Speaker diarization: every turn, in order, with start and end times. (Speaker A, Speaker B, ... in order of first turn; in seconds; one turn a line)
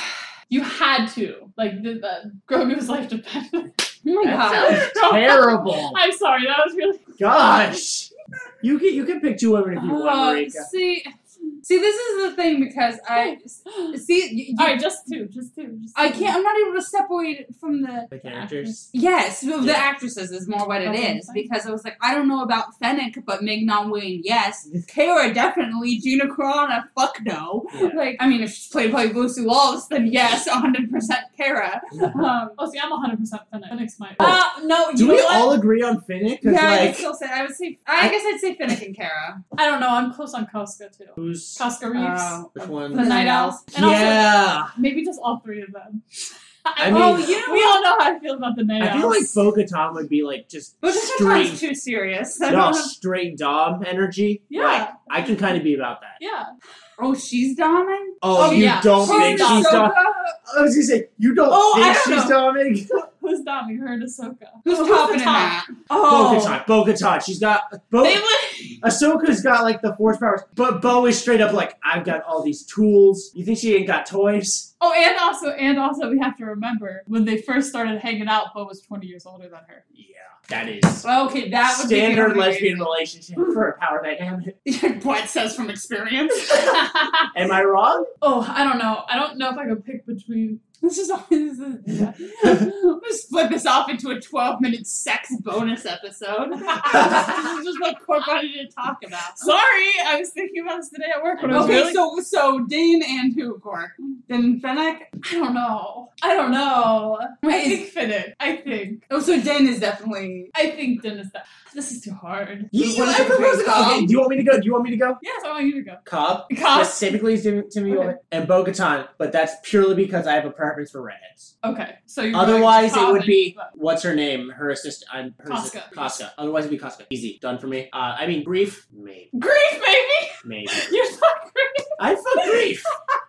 Speaker A: 0.5-3.9
Speaker B: 4.0-4.8
Speaker C: 4.2-6.0
Speaker A: 4.5-7.1
Speaker C: 7.2-8.1
Speaker C: 8.6-10.7
Speaker B: 9.8-14.8
Speaker A: 13.1-14.0
Speaker A: 14.6-16.3
Speaker B: 15.9-18.1
Speaker C: 18.1-18.9
Speaker A: 18.2-18.8
Speaker B: 18.9-32.6
Speaker C: 19.6-19.9
Speaker A: 20.8-21.4
Speaker C: 27.7-28.0
Speaker A: 32.6-35.6
Speaker C: 35.0-37.1
Speaker B: 36.4-39.4
Speaker A: 39.6-46.0
Speaker C: 41.2-41.6
Speaker B: 41.9-43.6
Speaker C: 42.5-43.2
Speaker C: 43.7-44.8
Speaker A: 46.6-49.4
Speaker C: 46.8-47.4
Speaker B: 46.8-47.8
Speaker C: 48.8-51.6
Speaker B: 50.8-52.9
Speaker C: 52.5-56.2
Speaker A: 54.5-55.3
Speaker A: 56.2-56.5
Speaker B: 57.0-60.4
Speaker C: 58.2-63.1
Speaker A: 58.3-59.9
Speaker A: 61.5-65.6
Speaker B: 64.7-66.6
Speaker C: 66.0-68.2
Speaker A: 68.0-68.8
Speaker C: 68.8-74.7
Speaker A: 74.8-79.8
Speaker C: 80.0-81.1
Speaker B: 81.0-82.9
Speaker C: 81.7-84.6
Speaker B: 84.7-86.8
Speaker A: 86.7-87.3
Speaker C: 87.3-88.1
Speaker A: 88.2-90.6
Speaker B: 90.8-99.5
Speaker A: 91.9-92.5
Speaker A: 96.8-97.8
Speaker A: 99.4-102.0
Speaker C: 101.4-101.9
Speaker B: 101.5-105.1
Speaker A: 105.2-109.0
Speaker B: 107.4-107.9
Speaker B: 109.1-110.5
Speaker A: 110.5-112.7
Speaker C: 112.7-115.2
Speaker B: 112.7-114.1
Speaker A: 115.2-117.2
Speaker C: 116.0-121.5
Speaker A: 117.9-118.2
Speaker A: 121.6-123.7
Speaker C: 122.3-129.3
Speaker A: 125.5-126.2
Speaker A: 129.3-131.9
Speaker C: 130.4-130.9
Speaker C: 132.0-132.9